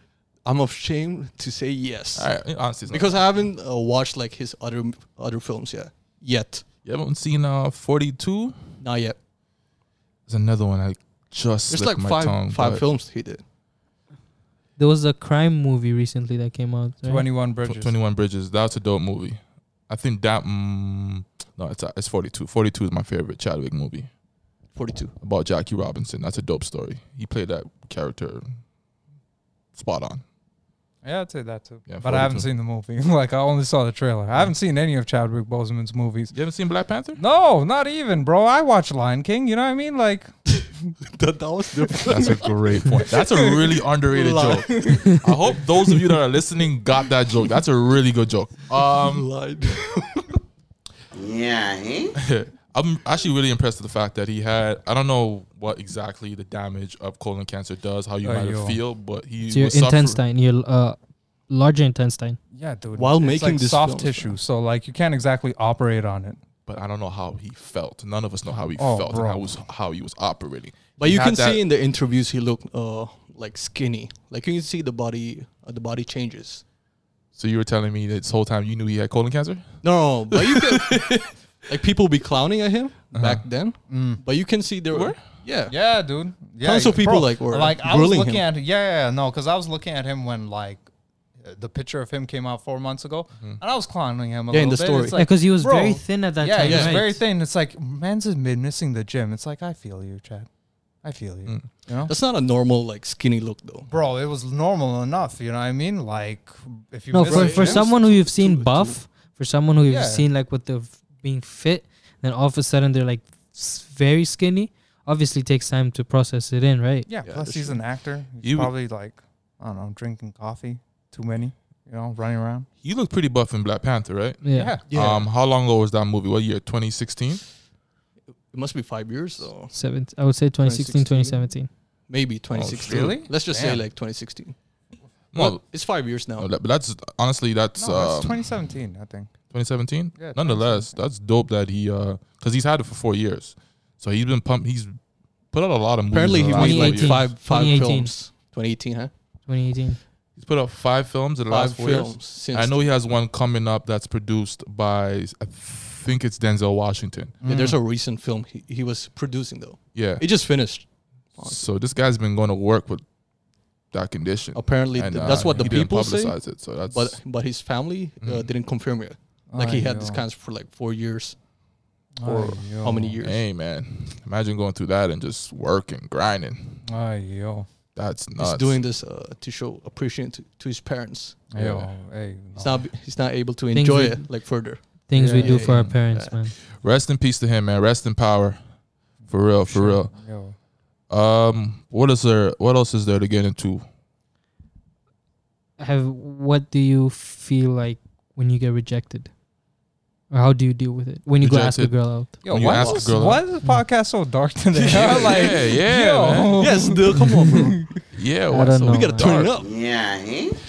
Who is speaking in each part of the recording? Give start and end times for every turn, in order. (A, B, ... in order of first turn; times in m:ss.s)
0:00.4-0:02.3 A
0:02.2-0:03.2 B
0:02.9-0:06.6 A
0:06.8-0:08.6 B
0:08.8-0:09.2 A
0:10.3-0:12.8 B
0:11.7-0:13.4 A
0:14.8-0:17.3 C
0:17.0-0:18.0 D
0:17.6-0:24.1 B
0:24.8-0:25.1 A
0:25.2-0:28.6 B
0:29.8-0:30.2 B
0:31.0-0:36.3 D
0:31.9-0:32.5 B
0:36.3-0:37.2 B
0:37.2-0:40.3 D
0:41.0-0:42.5 A
0:42.1-0:49.3 B
0:44.1-0:46.1 A
0:48.7-0:50.4 A
0:51.2-0:52.1 E
0:52.2-1:00.2 B
0:58.2-0:58.8 D
0:59.5-1:01.0 C
1:01.5-1:02.4 C
1:02.5-1:06.4 D
1:03.0-1:04.4 A
1:06.7-1:11.6 B
1:08.8-1:09.5 D
1:11.0-1:16.6 A
1:17.4-1:19.7 B
1:19.8-1:25.8 A
1:20.3-1:21.2 B
1:23.1-1:23.4 B
1:23.9-1:24.2 D
1:24.9-1:25.2 B
1:25.7-1:30.8 D
1:26.6-1:28.5 A
1:31.4-1:40.5 D
1:34.5-1:35.2 A
1:35.1-1:37.2 C
1:36.6-1:37.0 A
1:41.0-1:42.2 D
1:42.1-1:43.9 A
1:43.9-1:47.9 D
1:47.1-1:57.1 C
1:47.3-1:49.0 A
1:49.9-1:50.3 D
1:57.1-2:02.7 D
1:57.3-1:57.8 A
1:58.4-1:58.7 B
2:02.8-2:07.4 B
2:04.4-2:04.8 C
2:04.5-2:04.8 D
2:04.9-2:05.3 A
2:08.5-2:09.7 A
2:09.7-2:11.7 C
2:10.6-2:11.5 A
2:12.1-2:14.6 A
2:12.5-2:13.2 B
2:12.8-2:13.8 D
2:15.3-2:15.6 B
2:15.4-2:16.5 A
2:16.4-2:18.4 B
2:17.8-2:19.3 D
2:19.5-2:25.0 B
2:20.2-2:20.9 D
2:25.5-2:27.2 B
2:26.1-2:29.1 A
2:26.5-2:28.1 C
2:29.5-2:30.0 C
2:30.4-2:37.4 B
2:31.5-2:32.9 A
2:37.4-2:37.8 D
2:37.4-2:41.6 A
2:40.0-2:40.3 B
2:41.4-2:43.0 B
2:43.9-2:47.2 B
2:44.6-2:51.4 A
2:45.4-2:45.7 D
2:48.2-2:48.5 B
2:49.5-2:50.2 D
2:52.2-2:53.2 D
2:52.2-2:53.4 A
2:53.2-2:56.8 B
2:56.9-2:57.7 D
2:58.0-2:58.8 B
2:58.4-3:01.4 A
3:01.5-3:02.8 D
3:01.6-3:01.9 B
3:02.6-3:06.4 A
3:03.7-3:04.5 C
3:05.1-3:06.6 C
3:05.1-3:05.8 D
3:05.7-3:06.0 B
3:06.7-3:08.6 B
3:09.3-3:10.1 B
3:09.6-3:10.6 D
3:11.1-3:13.8 B
3:15.8-3:19.3 C
3:20.3-3:22.4 C
3:21.4-3:23.4 B
3:22.4-3:27.6 D
3:22.7-3:23.1 A
3:24.7-3:25.6 A
3:24.9-3:26.9 B
3:26.6-3:27.8 A
3:28.1-3:29.6 B
3:28.5-3:29.4 C
3:28.9-3:29.7 A
3:29.5-3:30.6 E